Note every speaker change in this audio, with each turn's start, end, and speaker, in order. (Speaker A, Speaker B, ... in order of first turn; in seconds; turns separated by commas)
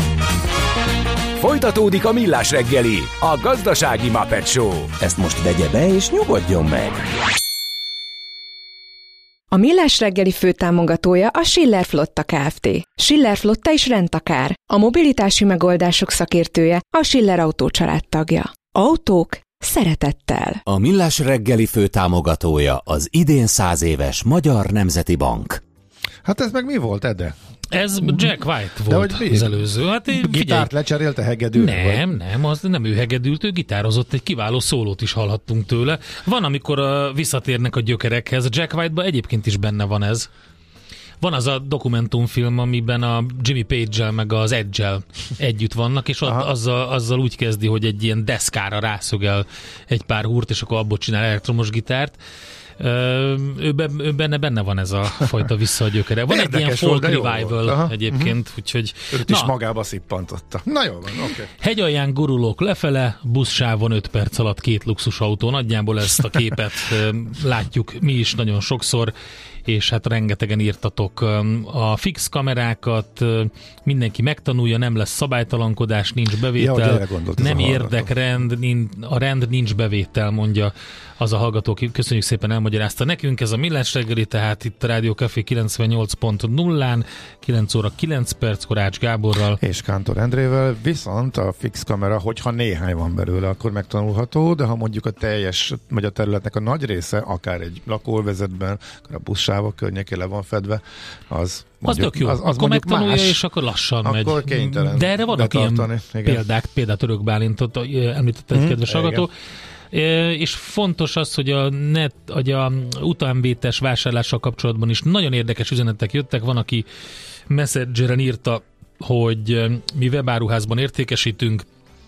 Speaker A: 1.3-4.9, Speaker B: 5.0-7.1, Speaker C: 9.5-20.6, Speaker B: 20.6-25.6, Speaker D: 26.2-27.4, Speaker E: 27.7-30.7, Speaker D: 28.0-28.3, Speaker D: 28.9-29.6, Speaker D: 30.1-32.1, Speaker E: 31.5-40.3, Speaker E: 41.2-52.2, Speaker E: 52.8-59.5, Speaker D: 56.3-58.4, Speaker D: 59.1-61.5, Speaker E: 61.6-69.1, Speaker E: 69.6-89.6, Speaker D: 76.5-78.1, Speaker D: 89.6-103.4, Speaker E: 101.8-109.3, Speaker D: 104.0-106.5, Speaker D: 108.5-109.2, Speaker E: 109.9-116.8, Speaker E: 117.5-121.7